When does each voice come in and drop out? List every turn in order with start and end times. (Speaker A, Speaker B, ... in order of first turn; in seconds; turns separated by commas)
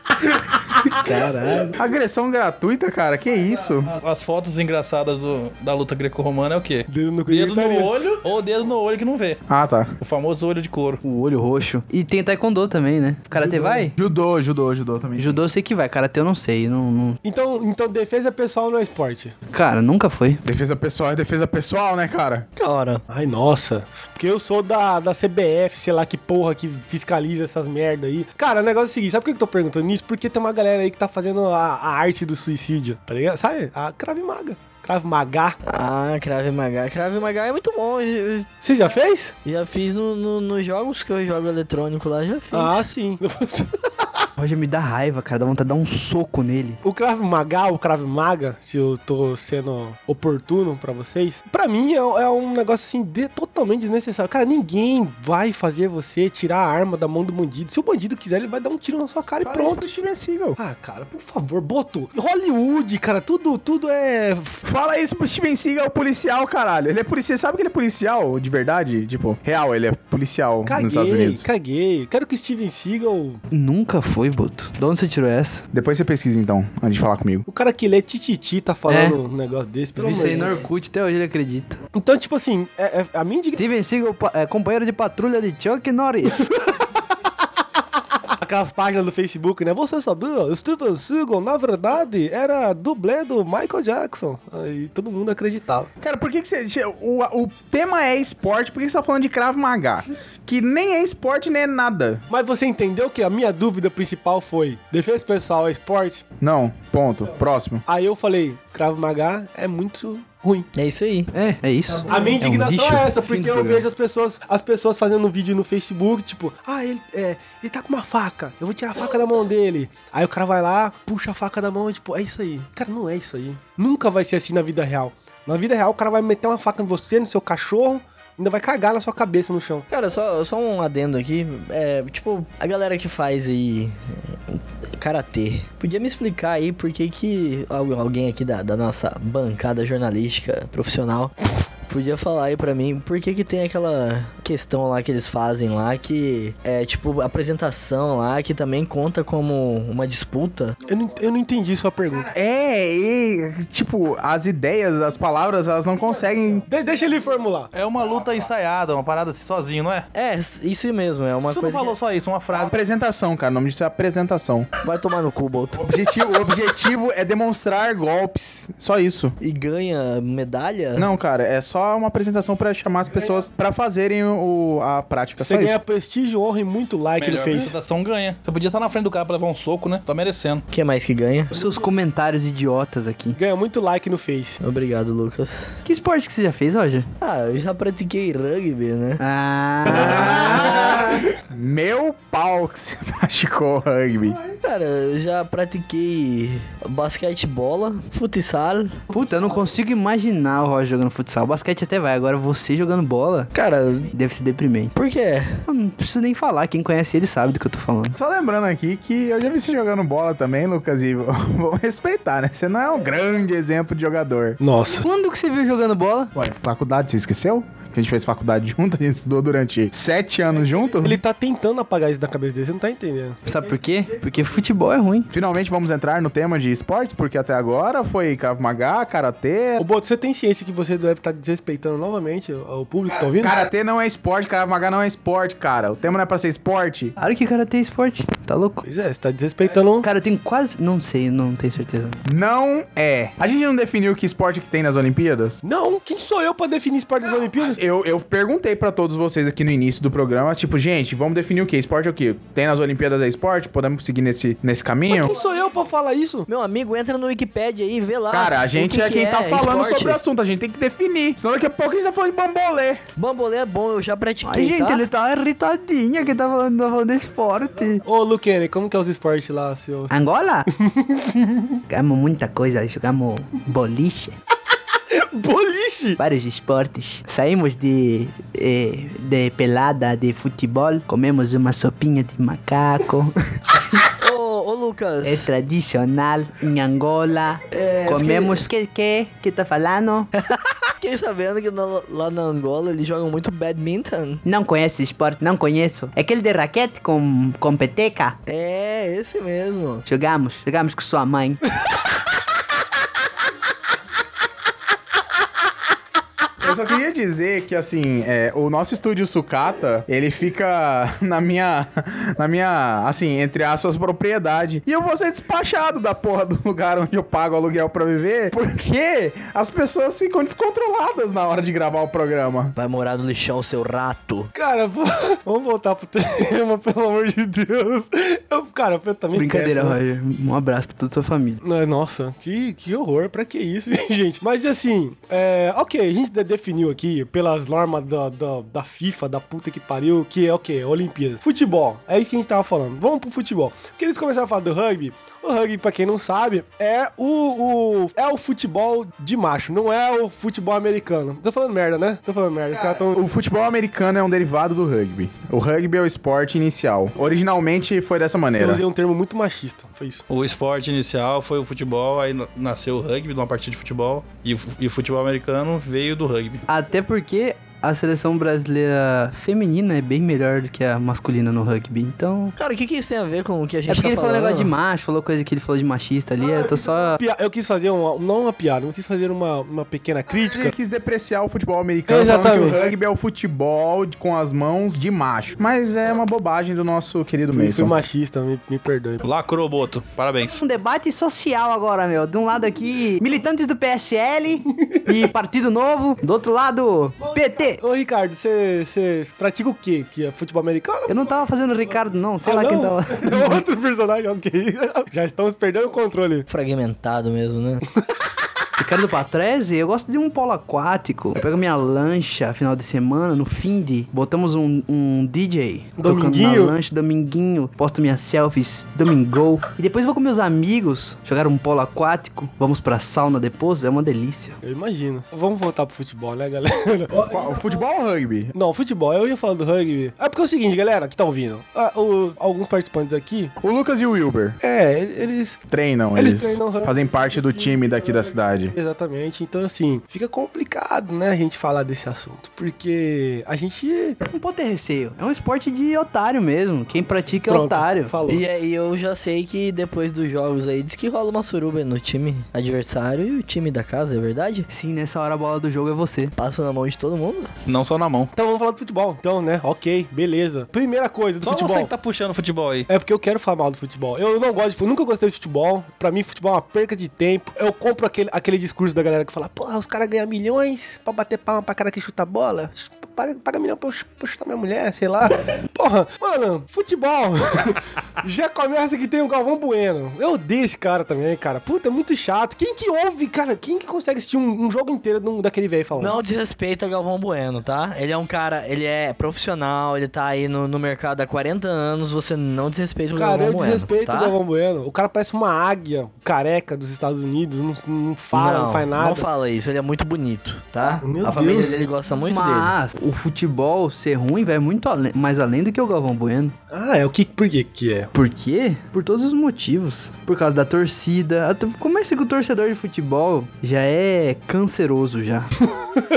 Speaker A: 1.0-1.7, Speaker B: 1.7-3.9, Speaker C: 3.9-9.4, Speaker D: 6.9-7.9, Speaker B: 9.5-9.9, Speaker C: 10.0-11.0, Speaker E: 11.0-13.9, Speaker D: 13.3-13.9, Speaker B: 14.0-15.4, Speaker E: 15.2-17.2, Speaker D: 17.2-19.3, Speaker E: 19.5-20.4, Speaker B: 20.4-22.5, Speaker A: 22.6-23.0, Speaker D: 23.1-35.6, Speaker A: 35.6-38.5, Speaker D: 38.6-39.4, Speaker A: 39.4-42.8, Speaker D: 42.5-44.1, Speaker E: 44.4-46.8, Speaker D: 46.8-59.8, Speaker B: 59.4-60.6, Speaker D: 60.6-64.6, Speaker B: 64.6-71.5, Speaker D: 70.7-73.4, Speaker E: 73.5-75.6, Speaker B: 75.7-77.5, Speaker D: 77.5-80.7, Speaker E: 78.9-79.2, Speaker E: 80.0-81.8, Speaker D: 81.9-83.6, Speaker E: 83.5-86.5, Speaker D: 88.4-95.9, Speaker B: 96.0-102.2, Speaker D: 102.3-106.2, Speaker B: 106.4-107.8, Speaker D: 107.9-110.7, Speaker A: 110.7-111.3, Speaker E: 111.3-113.8, Speaker D: 112.1-129.9, Speaker A: 129.9-141.3, Speaker A: 141.9-150.8, Speaker D: 150.8-152.3, Speaker B: 152.3-156.7, Speaker D: 156.7-157.7, Speaker C: 157.7-160.1, Speaker A: 160.1-161.9, Speaker C: 161.5-162.7, Speaker B: 162.5-164.7, Speaker A: 164.8-165.8, Speaker B: 165.7-169.4, Speaker A: 169.4-171.1, Speaker B: 170.9-175.8, Speaker D: 175.4-177.7, Speaker C: 177.2-180.6, Speaker A: 180.7-181.5, Speaker E: 181.5-183.4, Speaker D: 183.4-184.6, Speaker A: 184.6-185.8, Speaker E: 185.8-187.1, Speaker A: 187.2-189.2, Speaker E: 189.2-191.1, Speaker A: 189.8-191.1, Speaker B: 189.9-194.4, Speaker A: 194.4-199.0, Speaker E: 199.1-203.5, Speaker A: 203.5-204.1, Speaker E: 204.1-204.9, Speaker A: 204.9-205.6, Speaker E: 205.7-208.2, Speaker B: 208.2-214.6, Speaker D: 214.6-215.1, Speaker E: 215.0-216.3, Speaker B: 216.3-221.2, Speaker D: 221.0-223.4, Speaker E: 223.4-225.3, Speaker B: 225.3-229.8, Speaker D: 229.8-233.6, Speaker B: 233.2-237.2, Speaker E: 237.2-238.8, Speaker D: 238.8-240.1, Speaker E: 240.0-242.2, Speaker B: 242.2-245.6, Speaker D: 245.6-247.8, Speaker B: 247.6-255.3, Speaker D: 255.1-256.4, Speaker A: 256.4-260.2, Speaker B: 258.3-263.0, Speaker A: 263.2-265.0, Speaker E: 264.4-268.0, Speaker D: 268.0-270.1, Speaker E: 270.1-270.7, Speaker D: 270.7-271.8, Speaker E: 271.9-274.4, Speaker D: 275.1-276.2, Speaker E: 276.2-283.3, Speaker A: 284.2-285.5, Speaker E: 285.2-290.3, Speaker A: 287.7-288.7, Speaker A: 290.4-294.4, Speaker E: 294.4-298.4, Speaker A: 298.5-300.0, Speaker E: 300.1-301.6, Speaker B: 306.6-322.7, Speaker A: 322.8-324.5, Speaker D: 324.5-330.0, Speaker E: 329.3-331.6, Speaker D: 331.6-353.2, Speaker B: 352.8-358.8, Speaker D: 358.6-360.2, Speaker C: 360.3-366.6, Speaker E: 366.7-372.6, Speaker A: 372.6-374.7, Speaker E: 373.9-377.2, Speaker D: 376.4-380.7, Speaker B: 380.3-387.9, Speaker D: 382.1-382.8, Speaker D: 387.5-389.2, Speaker C: 389.2-390.6, Speaker E: 390.4-397.8, Speaker D: 397.2-401.2, Speaker E: 401.1-403.6, Speaker D: 402.4-406.5, Speaker A: 406.5-407.8, Speaker E: 408.8-424.6, Speaker D: 416.0-416.8, Speaker D: 424.6-427.8, Speaker B: 427.2-428.5, Speaker D: 428.5-433.5, Speaker B: 433.6-434.6, Speaker D: 434.6-435.6, Speaker B: 435.7-438.8, Speaker D: 436.1-444.2, Speaker E: 444.2-448.1, Speaker D: 447.5-448.4, Speaker A: 448.3-454.7, Speaker E: 454.7-456.3, Speaker A: 456.4-457.5, Speaker C: 457.6-458.3, Speaker D: 458.3-461.9, Speaker C: 461.4-462.9, Speaker D: 462.9-486.2, Speaker A: 485.9-494.4, Speaker D: 493.1-499.2, Speaker A: 498.3-502.7, Speaker D: 501.0-501.8, Speaker E: 502.2-506.5, Speaker D: 506.7-508.1, Speaker E: 508.1-515.5